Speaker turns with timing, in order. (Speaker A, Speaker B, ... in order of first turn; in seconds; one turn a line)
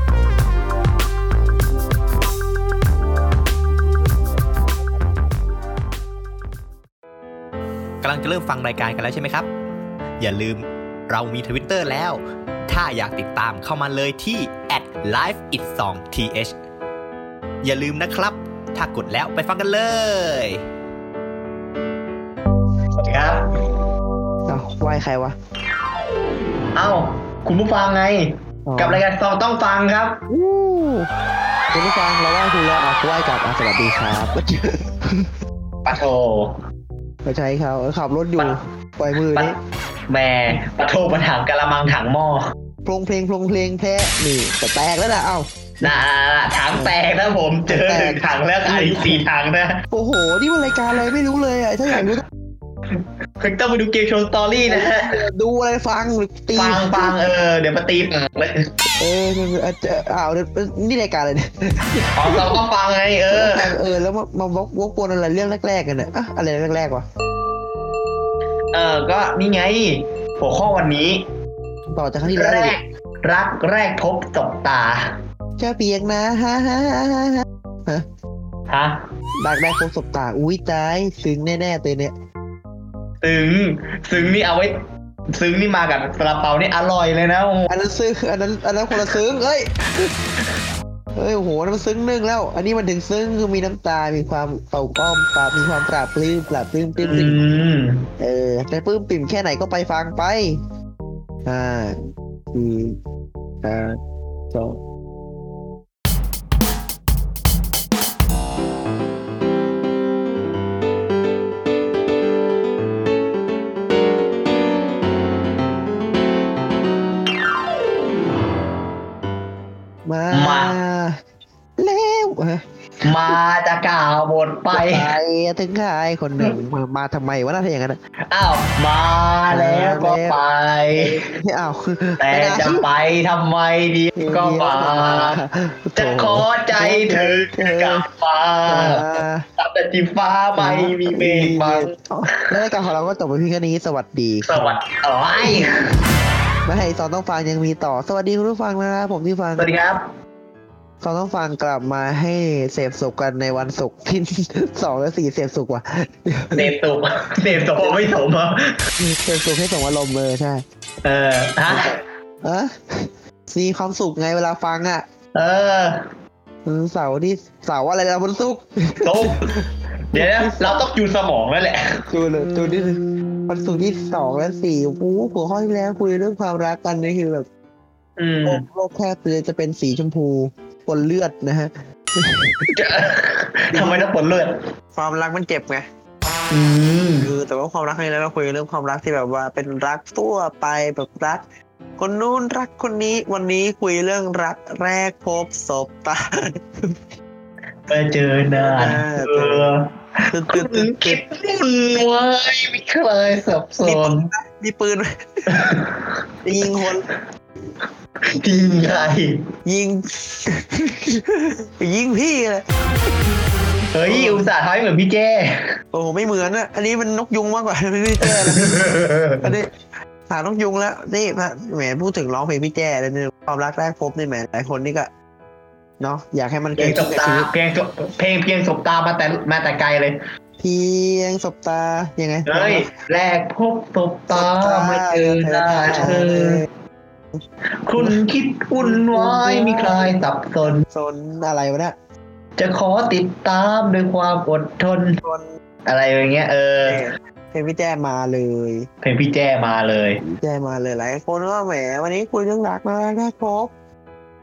Speaker A: 8.0-9.5
Speaker B: 8.3-9.1
Speaker A: 10.2-12.2
Speaker B: 11.2-12.0
Speaker A: 12.7-16.5
Speaker B: 13.2-14.3
Speaker B: 15.9-16.4
Speaker A: 17.6-20.5
Speaker B: 17.8-18.3
Speaker B: 19.0-19.9
Speaker B: 23.0-23.4
Speaker C: 24.5-25.3
Speaker B: 26.8-30.2
Speaker C: 28.6-29.0
Speaker C: 30.3-31.1
Speaker C: 31.7-35.3
Speaker B: 35.8-36.5
Speaker C: 37.2-39.6
Speaker B: 40.1-42.4
Speaker C: 42.8-45.9
Speaker B: 45.8-49.8
Speaker C: 47.7-49.2
Speaker C: 49.9-52.2
Speaker B: 52.9-55.1
Speaker C: 54.7-57.2
Speaker B: 56.5-58.7
Speaker C: 59.0-62.6
Speaker B: 62.1-63.7
Speaker C: 63.3-67.0
Speaker B: 68.7-71.2
Speaker C: 71.9-72.8
Speaker B: 72.2-75.1
Speaker C: 75.6-78.0
Speaker B: 78.7-79.0
Speaker C: 79.4-82.1
Speaker B: 83.2-84.7
Speaker B: 85.3-87.7
Speaker C: 87.7-90.2
Speaker C: 91.2-97.4
Speaker B: 97.0-98.1
Speaker C: 98.2-100.6
Speaker C: 101.4-102.0
Speaker C: 102.5-103.0
Speaker C: 103.6-104.0
Speaker C: 104.5-104.8
Speaker C: 120.0-121.2
Speaker B: 120.3-120.7
Speaker C: 121.8-123.4
Speaker B: 123.0-125.1
Speaker C: 124.7-128.0
Speaker B: 128.3-131.2
Speaker C: 129.5-130.4
Speaker C: 131.0-132.9
Speaker B: 132.2-135.4
Speaker C: 134.2-138.1
Speaker B: 136.0-139.1
Speaker C: 138.7-139.4
Speaker B: 139.6-141.9
Speaker C: 140.6-144.7
Speaker B: 144.4-145.8
Speaker C: 146.7-149.7
Speaker B: 149.6-150.1
Speaker C: 151.0-156.7
Speaker B: 156.6-158.8
Speaker C: 157.4-158.0
Speaker C: 159.0-160.6
Speaker B: 161.0-161.9
Speaker C: 161.7-165.0
Speaker B: 165.3-166.0
Speaker C: 166.6-170.8
Speaker B: 169.0-169.4
Speaker B: 170.1-172.0
Speaker C: 172.1-177.5
Speaker B: 178.2-178.6
Speaker C: 178.4-182.7
Speaker B: 182.7-184.5
Speaker C: 183.7-184.1
Speaker C: 184.9-185.8
Speaker B: 186.5-187.3
Speaker C: 187.2-191.4
Speaker C: 192.0-196.2
Speaker B: 197.9-199.9
Speaker C: 198.5-199.8
Speaker C: 200.3-201.2
Speaker B: 200.5-204.3
Speaker C: 203.8-205.1
Speaker B: 205.5-206.1
Speaker C: 206.4-207.0
Speaker B: 206.7-207.1
Speaker B: 208.4-209.4
Speaker C: 209.6-212.7
Speaker B: 213.9-215.5
Speaker C: 214.0-214.5
Speaker C: 215.9-219.7
Speaker B: 218.2-219.5
Speaker C: 220.3-225.1
Speaker C: 226.0-227.5
Speaker B: 226.8-230.2
Speaker C: 230.6-232.9
Speaker B: 232.4-236.6
Speaker C: 234.3-236.7
Speaker B: 237.8-240.8
Speaker C: 238.8-240.2
Speaker C: 240.9-241.9
Speaker B: 242.6-245.2
Speaker B: 245.8-247.0
Speaker C: 246.8-248.9
Speaker B: 249.0-250.2
Speaker C: 250.2-253.7